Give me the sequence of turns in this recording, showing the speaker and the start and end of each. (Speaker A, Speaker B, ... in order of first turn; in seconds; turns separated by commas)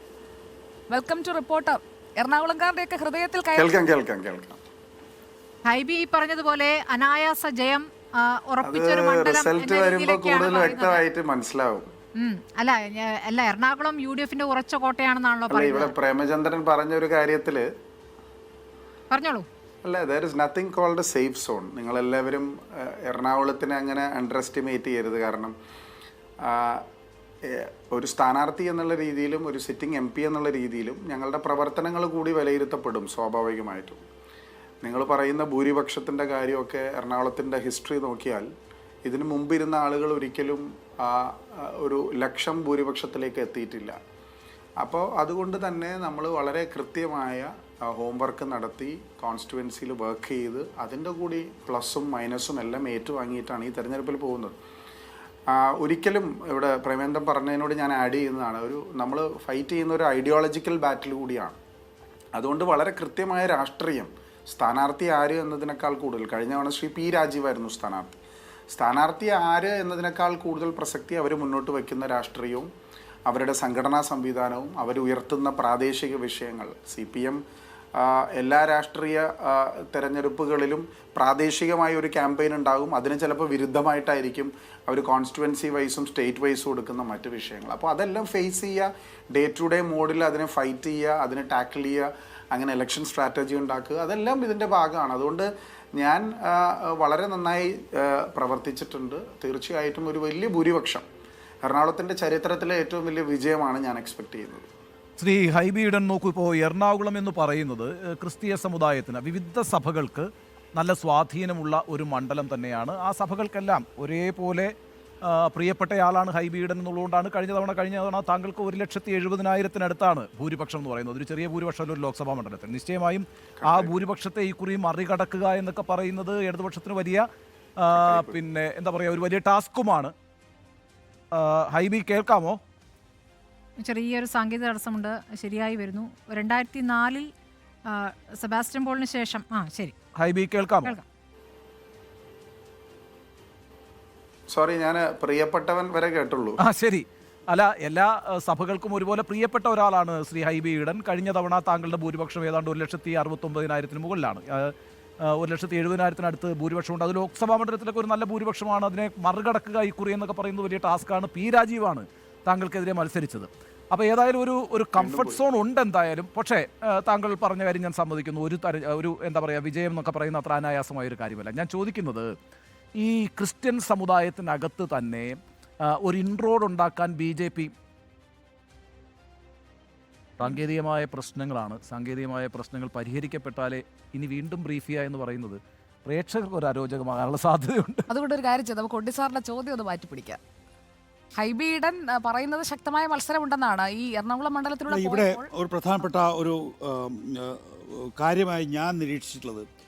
Speaker A: 0.9-3.8, Speaker B: 3.6-4.6, Speaker C: 5.7-11.0, Speaker B: 8.6-11.9, Speaker C: 12.2-15.9, Speaker B: 15.5-17.7, Speaker C: 19.1-19.5, Speaker B: 19.8-25.5, Speaker B: 26.4-26.9, Speaker B: 27.5-34.0, Speaker B: 34.8-38.5, Speaker B: 39.1-44.0, Speaker B: 44.8-54.6, Speaker B: 55.5-61.6, Speaker B: 62.4-68.2, Speaker B: 68.7-72.7, Speaker B: 73.3-77.4, Speaker B: 78.0-101.0, Speaker B: 101.7-104.7, Speaker D: 105.2-114.7, Speaker D: 115.3-127.2, Speaker B: 123.6-124.0, Speaker D: 127.8-130.1, Speaker B: 127.9-128.4, Speaker D: 131.4-132.6, Speaker C: 133.8-137.3, Speaker C: 137.9-139.9, Speaker D: 140.2-141.0, Speaker B: 144.5-146.6, Speaker D: 146.7-154.7, Speaker D: 155.4-172.3, Speaker B: 165.0-165.4, Speaker D: 173.0-175.4, Speaker D: 175.9-177.7, Speaker D: 180.4-188.1, Speaker A: 188.1-190.4, Speaker A: 191.4-195.5, Speaker E: 194.9-199.7